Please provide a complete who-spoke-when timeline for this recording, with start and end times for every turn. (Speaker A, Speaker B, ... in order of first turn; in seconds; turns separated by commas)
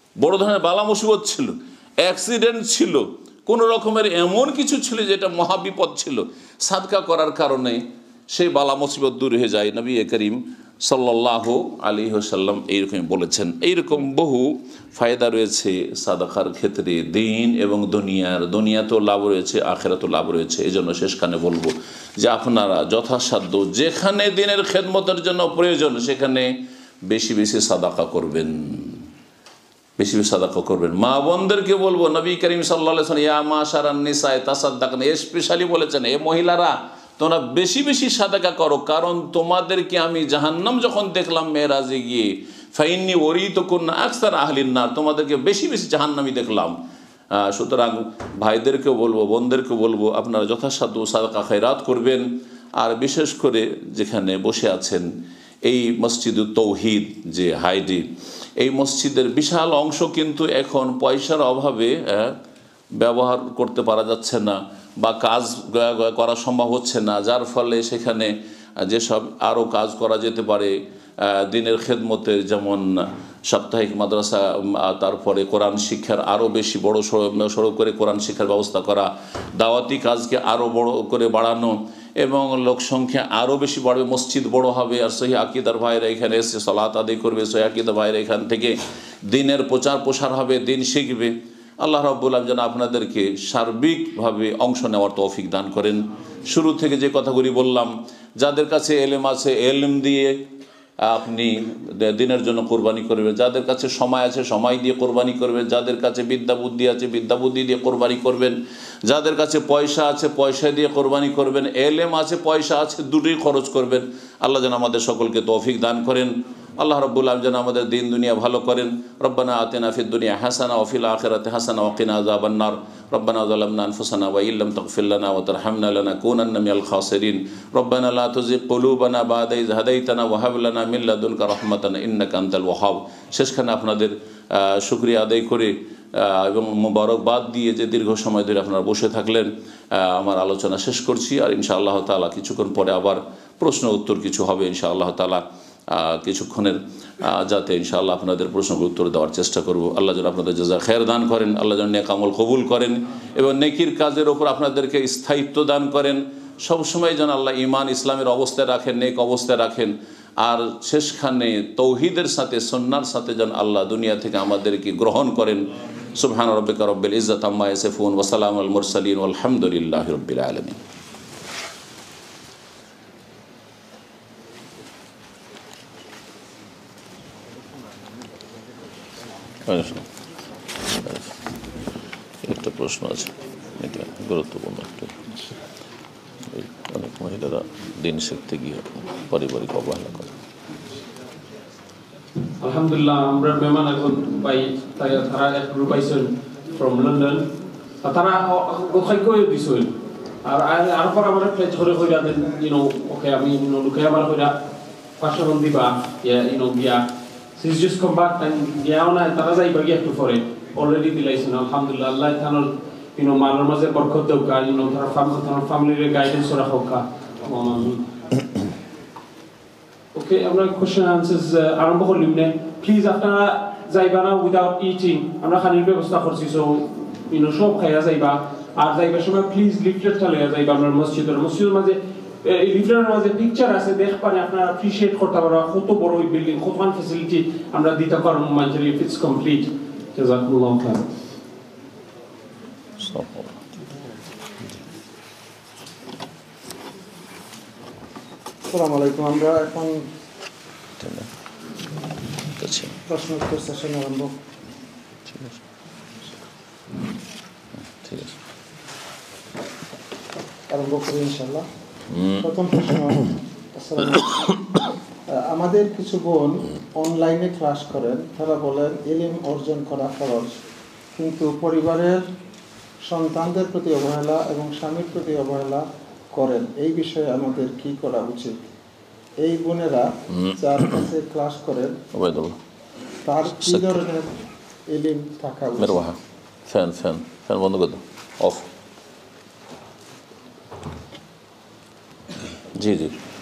Speaker A: 0.2-26.5, Speaker A: 27.1-29.1, Speaker A: 30.0-46.8, Speaker A: 47.4-55.1, Speaker A: 55.7-58.1, Speaker A: 58.6-62.4, Speaker A: 63.0-100.4, Speaker A: 101.0-170.8, Speaker A: 179.7-180.1, Speaker A: 180.9-181.3, Speaker A: 182.4-185.4, Speaker A: 186.5-190.4, Speaker B: 192.6-197.5, Speaker B: 198.0-204.6, Speaker B: 205.2-218.1, Speaker B: 220.2-241.1, Speaker A: 243.0-243.6, Speaker C: 248.7-250.1, Speaker A: 251.0-251.3, Speaker A: 252.6-253.0, Speaker C: 253.1-254.3, Speaker A: 258.0-258.4, Speaker C: 260.7-261.7, Speaker A: 262.1-262.4, Speaker C: 262.4-270.6, Speaker C: 271.1-272.2, Speaker C: 273.1-278.5, Speaker C: 279.4-282.0, Speaker A: 280.3-280.6, Speaker A: 282.1-282.6, Speaker C: 283.2-286.1, Speaker A: 283.6-284.0, Speaker A: 285.8-288.7, Speaker A: 292.8-293.1